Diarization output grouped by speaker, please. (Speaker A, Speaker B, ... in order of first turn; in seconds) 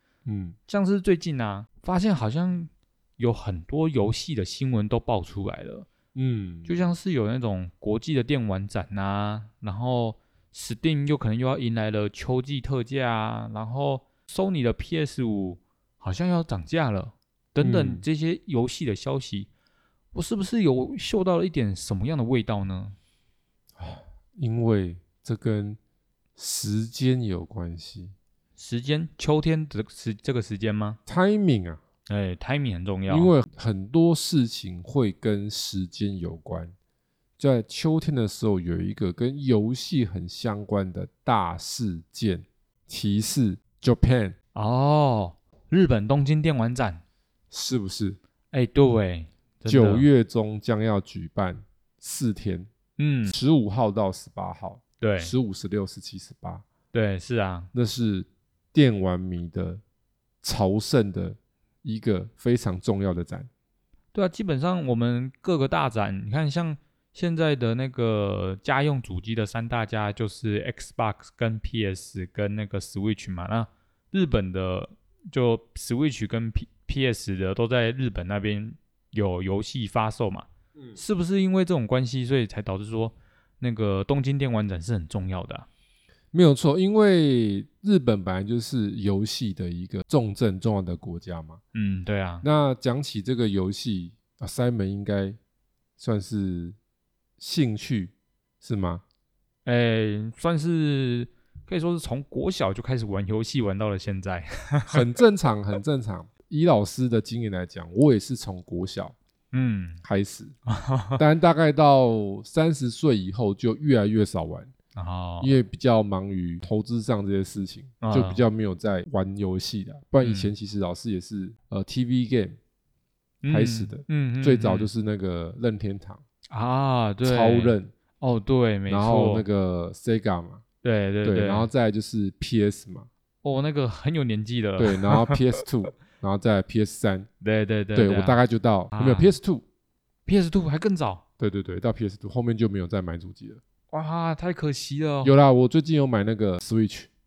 Speaker A: 0.2-0.6, 6.1-6.7, 17.6-18.0, 23.8-25.8, 26.4-28.1, 31.1-31.8, 33.1-36.7, 37.4-44.4, 47.5-48.2, 49.7-52.7, 53.3-56.6, 57.7-59.8, 60.4-63.5, 86.3-91.6, 92.4-95.4, 96.0-96.8, 97.4-99.0, 104.9-109.2, 110.0-110.5, 111.2-114.7, 115.4-122.6, 123.5-126.2, 127.2-127.9, 128.9-130.6, 131.2-133.1, 134.8-137.3, 137.9-139.6, 141.4-143.6, 145.2-147.1
Speaker B: 0.7-5.9, 6.7-19.5, 20.1-22.9, 28.6-31.0, 32.1-33.3, 44.5-47.0, 48.5-50.1, 53.0-53.3, 55.0-55.3, 56.9-57.7, 64.1-85.7, 91.7-92.4, 99.6-105.0, 109.5-110.0, 110.7-111.2, 115.0-115.5, 118.0-118.4, 120.2-120.5, 123.4-124.9, 126.5-129.4, 130.8-131.7, 133.4-135.4, 137.4-138.4, 138.9-139.3, 140.2-141.2, 143.9-145.3